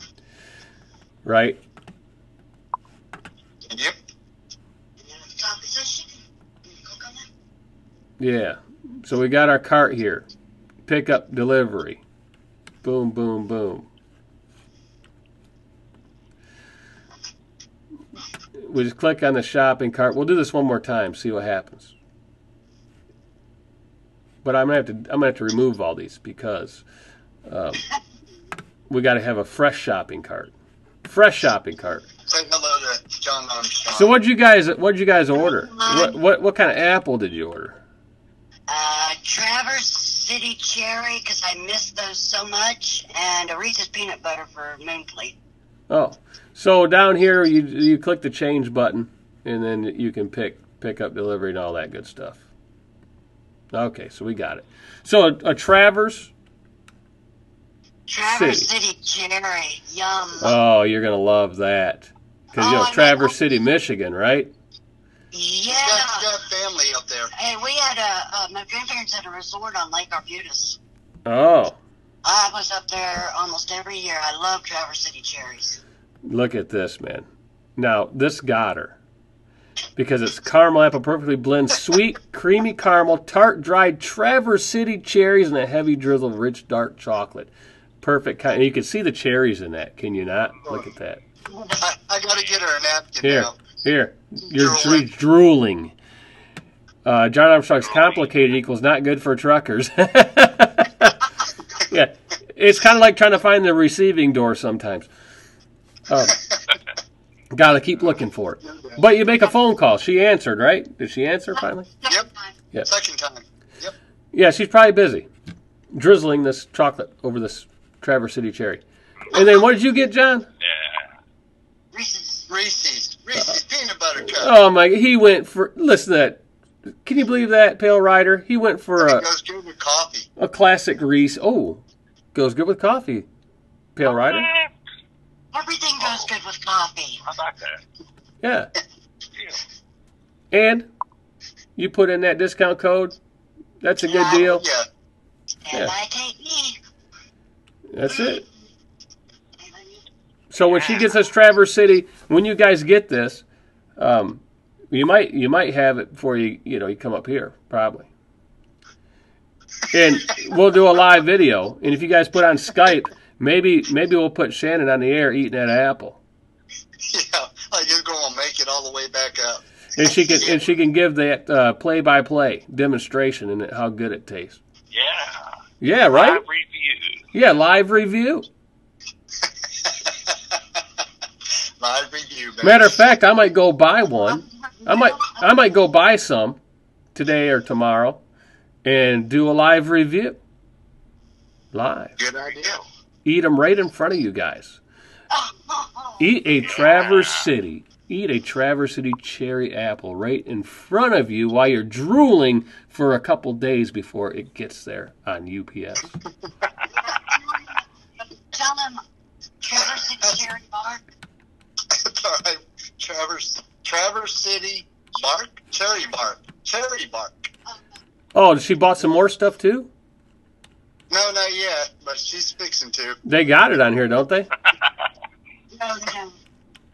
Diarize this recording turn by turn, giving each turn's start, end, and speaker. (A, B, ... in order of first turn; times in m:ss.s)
0:01.2-0:01.6 A
0:03.7-0:03.9 B
0:05.0-0:07.3 C
0:08.2-0:10.3 A
0:10.9-0:12.0 A
0:12.8-0:13.9 A
0:18.6-0:21.9 A
0:24.4-0:26.8 A
0:27.4-0:27.8 A
0:28.9-0:30.5 A
0:31.0-0:32.1 A
0:32.2-0:34.1 B
0:33.9-0:37.8 A
0:35.4-0:36.2 C
0:38.7-0:45.4 C
0:45.9-0:52.4 A
0:53.7-0:56.3 A
0:58.1-1:00.6 C
0:58.3-0:58.7 A
1:00.4-1:04.5 A
1:02.5-1:03.3 C
1:05.3-1:06.3 C
1:05.7-1:07.3 B
1:07.3-1:10.8 C
1:11.2-1:11.8 A
1:12.2-1:15.8 C
1:16.2-1:19.0 A
1:20.0-1:27.5 A
1:28.0-1:31.2 A
1:31.6-1:33.6 B
1:33.2-1:35.9 A
1:34.5-1:35.0 B
1:37.0-1:41.2 A
1:37.8-1:38.3 D
1:41.8-1:45.1 A
1:46.1-1:46.4 A
1:47.5-1:51.9 A
1:48.6-1:49.0 B
1:52.0-1:52.5 C
1:52.8-1:53.9 B
1:54.3-1:55.3 A
1:55.9-2:00.5 A
2:00.6-2:01.2 D
2:01.9-2:02.5 C
2:02.5-2:04.5 B
2:04.2-2:06.4 A
2:07.0-2:09.2 A
2:09.0-2:10.3 B
2:10.4-2:11.8 A
2:12.3-2:13.3 A
2:13.9-2:14.5 A
2:14.0-2:14.7 D
2:15.5-2:17.2 C
2:16.0-2:16.3 D
2:17.2-2:17.8 D
2:18.4-2:18.7 A
2:19.3-2:19.6 D
2:20.5-2:20.9 A
2:21.8-2:23.2 A
2:23.8-2:24.6 A
2:24.0-2:24.5 C
2:24.2-2:24.9 B
2:25.6-2:26.8 C
2:27.9-2:28.4 A
2:29.6-2:30.0 C
2:30.5-2:33.4 A
2:34.0-2:38.1 A
2:39.9-2:46.2 A
2:47.1-2:50.5 B
2:50.0-2:54.6 A
2:54.9-2:55.5 D
2:55.8-2:56.4 A
2:56.1-2:57.3 D
2:57.3-2:58.5 A
2:59.8-3:00.6 B
3:01.8-3:02.9 B
3:02.6-3:06.6 A
3:04.4-3:05.4 C
3:07.1-3:08.2 A
3:08.8-3:10.4 A
3:11.7-3:12.2 A
3:12.2-3:12.8 B
3:12.6-3:12.8 D
3:13.2-3:14.8 A
3:15.3-3:16.3 C
3:16.2-3:26.2 A
3:16.7-3:17.5 D
3:26.9-3:27.8 C
3:28.4-3:29.0 C
3:29.6-3:31.0 C
3:31.9-3:37.5 B
3:38.3-3:39.9 A
3:41.1-3:43.2 B
3:43.2-3:44.5 A
3:44.6-3:45.1 D
3:45.7-3:46.4 C